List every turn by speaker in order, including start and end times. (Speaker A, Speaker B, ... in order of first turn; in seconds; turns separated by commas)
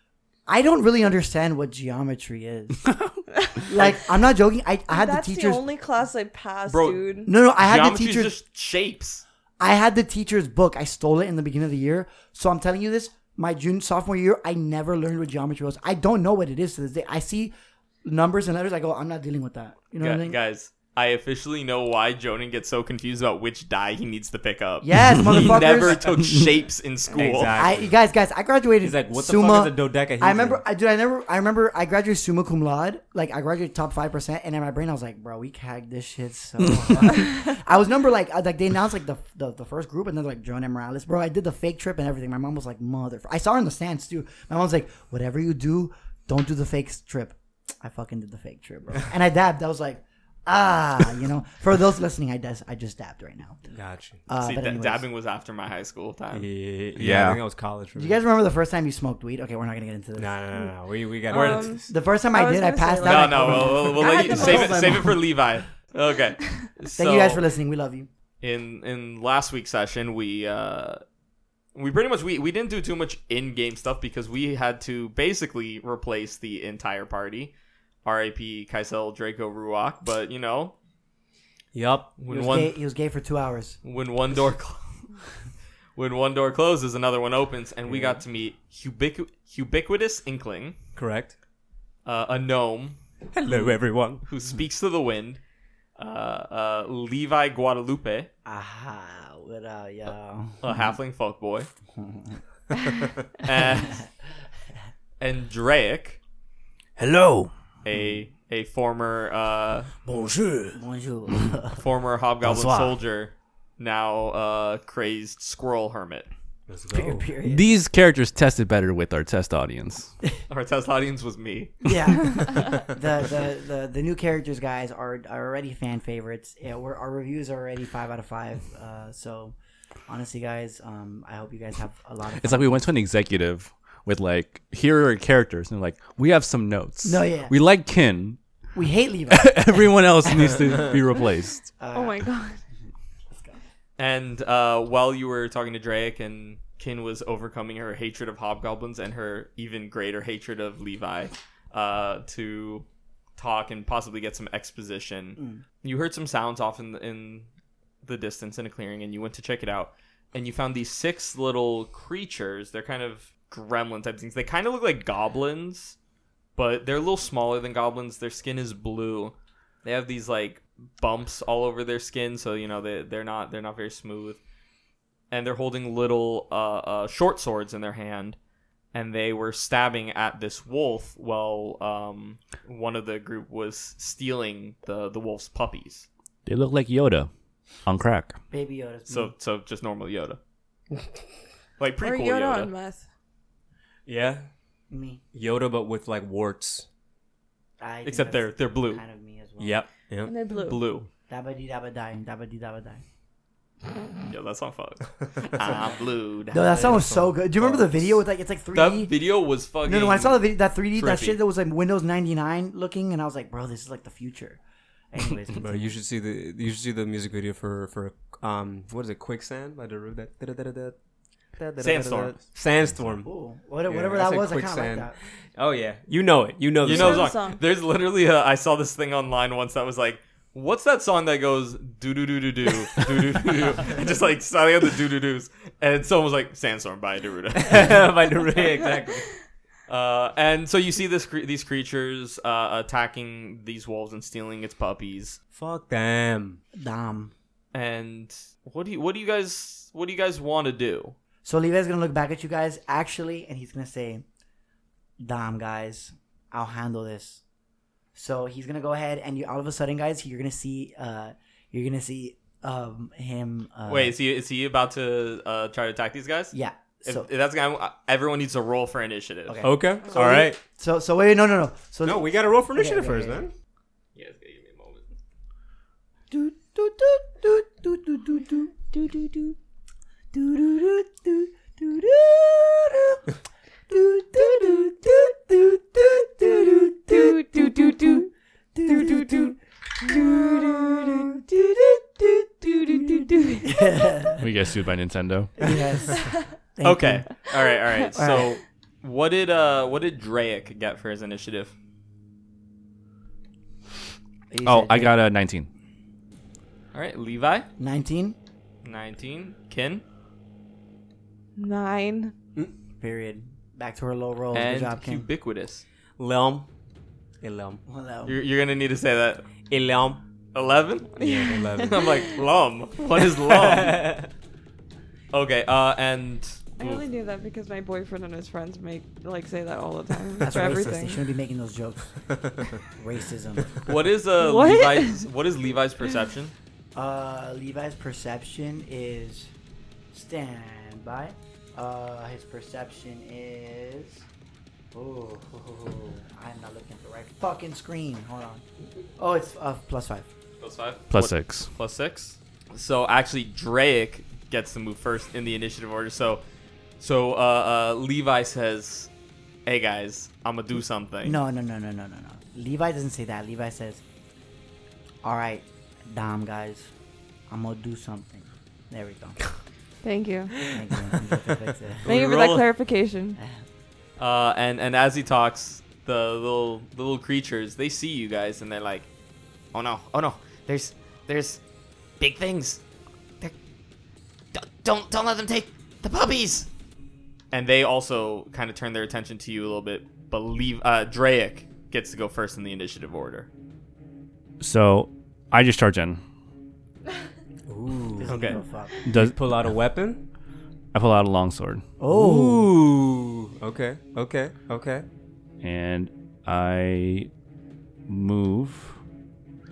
Speaker A: 0.5-2.9, Speaker B: 3.3-3.9, Speaker A: 3.7-5.6, Speaker B: 4.9-7.3, Speaker C: 6.7-7.0, Speaker A: 7.2-8.3, Speaker C: 7.6-9.2, Speaker A: 9.6-17.5, Speaker A: 18.0-20.4, Speaker C: 20.0-27.6, Speaker A: 24.8-26.5, Speaker D: 25.3-26.2, Speaker D: 27.1-28.0, Speaker A: 27.5-53.6, Speaker D: 28.8-30.6, Speaker D: 36.7-37.1, Speaker D: 53.7-54.2, Speaker A: 54.3-55.0, Speaker C: 54.4-56.5, Speaker D: 56.3-58.2, Speaker E: 57.0-57.4, Speaker A: 57.9-60.4, Speaker D: 60.2-61.9, Speaker B: 61.3-65.1, Speaker A: 61.4-65.2, Speaker C: 63.0-67.4, Speaker A: 67.0-68.1, Speaker C: 68.4-71.0, Speaker C: 71.7-77.5, Speaker C: 78.0-80.7, Speaker D: 81.7-82.2, Speaker C: 82.2-82.8, Speaker A: 82.3-83.8, Speaker C: 83.8-84.8, Speaker C: 86.0-90.8, Speaker D: 87.9-88.2, Speaker D: 91.0-91.3, Speaker C: 92.0-95.4, Speaker D: 93.3-94.2, Speaker C: 96.0-98.3, Speaker A: 98.4-100.9, Speaker C: 100.6-101.7, Speaker A: 101.9-102.9, Speaker C: 103.4-104.0, Speaker A: 103.8-104.0, Speaker C: 105.2-106.2, Speaker E: 107.0-107.5, Speaker C: 107.8-109.9, Speaker E: 110.0-110.8, Speaker A: 110.7-111.8, Speaker C: 111.8-116.3, Speaker E: 112.4-112.9, Speaker D: 116.7-117.3, Speaker A: 116.9-117.7, Speaker E: 117.4-120.1, Speaker C: 120.5-121.8, Speaker A: 121.8-129.6, Speaker A: 130.1-132.8, Speaker E: 132.4-138.4, Speaker A: 137.0-137.5, Speaker A: 138.7-139.6, Speaker E: 139.3-141.7, Speaker A: 141.8-142.2, Speaker B: 141.9-142.6, Speaker A: 143.3-143.6, Speaker C: 144.0-152.8, Speaker C: 153.4-157.5, Speaker C: 158.0-166.0, Speaker C: 166.6-174.4, Speaker C: 175.3-178.4, Speaker C: 178.9-186.1, Speaker E: 186.4-187.3, Speaker E: 187.8-188.3, Speaker A: 188.5-189.3, Speaker C: 189.1-190.4, Speaker C: 191.8-192.7, Speaker B: 192.0-193.1, Speaker D: 194.1-194.5, Speaker A: 194.9-195.2, Speaker D: 195.3-196.8, Speaker A: 197.8-199.8, Speaker C: 198.0-199.0, Speaker D: 199.6-200.3, Speaker B: 200.2-200.8, Speaker C: 200.5-201.1, Speaker A: 201.3-203.0, Speaker C: 204.3-206.6, Speaker A: 206.5-209.1, Speaker D: 206.5-208.2, Speaker C: 208.7-211.4, Speaker A: 209.8-214.6, Speaker A: 215.1-215.9, Speaker D: 215.6-220.9, Speaker D: 221.6-223.3, Speaker C: 221.8-222.4, Speaker A: 223.0-225.1, Speaker D: 223.9-227.3, Speaker C: 226.8-238.0, Speaker B: 226.8-227.6, Speaker D: 237.6-239.3, Speaker C: 239.9-245.4, Speaker D: 245.5-246.6, Speaker A: 246.7-247.3, Speaker C: 247.7-251.2, Speaker A: 251.4-254.2, Speaker A: 255.2-257.4, Speaker A: 258.1-264.1, Speaker C: 263.9-266.5, Speaker A: 266.5-267.3, Speaker C: 267.0-269.6, Speaker A: 269.4-273.4, Speaker D: 269.6-270.6, Speaker D: 272.0-273.5, Speaker C: 274.1-275.1, Speaker A: 276.3-279.5, Speaker A: 280.3-283.2, Speaker A: 283.9-294.4, Speaker B: 287.1-288.2, Speaker B: 288.9-289.5, Speaker B: 290.2-290.7, Speaker B: 292.7-294.0, Speaker E: 294.4-295.6, Speaker A: 295.6-297.3, Speaker C: 296.8-301.7, Speaker A: 298.1-298.5, Speaker A: 304.5-305.1, Speaker E: 304.6-305.7, Speaker C: 306.9-307.7, Speaker A: 307.8-308.4, Speaker C: 308.8-310.0, Speaker B: 311.6-312.3, Speaker A: 313.0-315.3, Speaker C: 314.5-315.8, Speaker D: 316.2-316.7, Speaker D: 317.4-317.8, Speaker A: 317.9-318.4, Speaker C: 318.2-319.5, Speaker D: 319.7-320.2, Speaker C: 320.5-321.1, Speaker B: 321.1-322.2, Speaker D: 321.2-322.0, Speaker C: 321.8-324.1, Speaker D: 323.5-324.3, Speaker C: 325.3-327.0, Speaker B: 326.8-331.2, Speaker A: 330.4-332.2, Speaker D: 332.3-332.8, Speaker A: 332.9-333.7, Speaker C: 333.9-336.5, Speaker B: 334.4-335.3, Speaker A: 336.9-339.5, Speaker A: 340.1-344.2, Speaker A: 344.9-348.6, Speaker A: 349.2-350.2, Speaker C: 350.6-356.4, Speaker E: 351.1-351.7, Speaker C: 357.0-359.1, Speaker C: 359.6-361.4, Speaker A: 361.2-364.0, Speaker A: 365.2-366.9, Speaker A: 367.5-369.4, Speaker B: 370.0-370.7, Speaker D: 370.6-371.5, Speaker A: 370.7-372.1, Speaker C: 372.0-372.7, Speaker B: 372.0-373.4, Speaker A: 373.4-373.6, Speaker C: 374.2-379.1, Speaker C: 379.7-381.6, Speaker C: 382.2-382.8, Speaker C: 384.5-386.7, Speaker C: 387.5-393.5, Speaker E: 394.6-396.2, Speaker D: 397.7-398.6, Speaker A: 398.2-399.0, Speaker C: 398.3-398.6, Speaker E: 399.1-399.7, Speaker D: 399.1-400.2, Speaker E: 400.9-401.8, Speaker A: 402.0-402.7, Speaker D: 402.0-405.1, Speaker E: 405.6-407.3, Speaker E: 408.1-408.9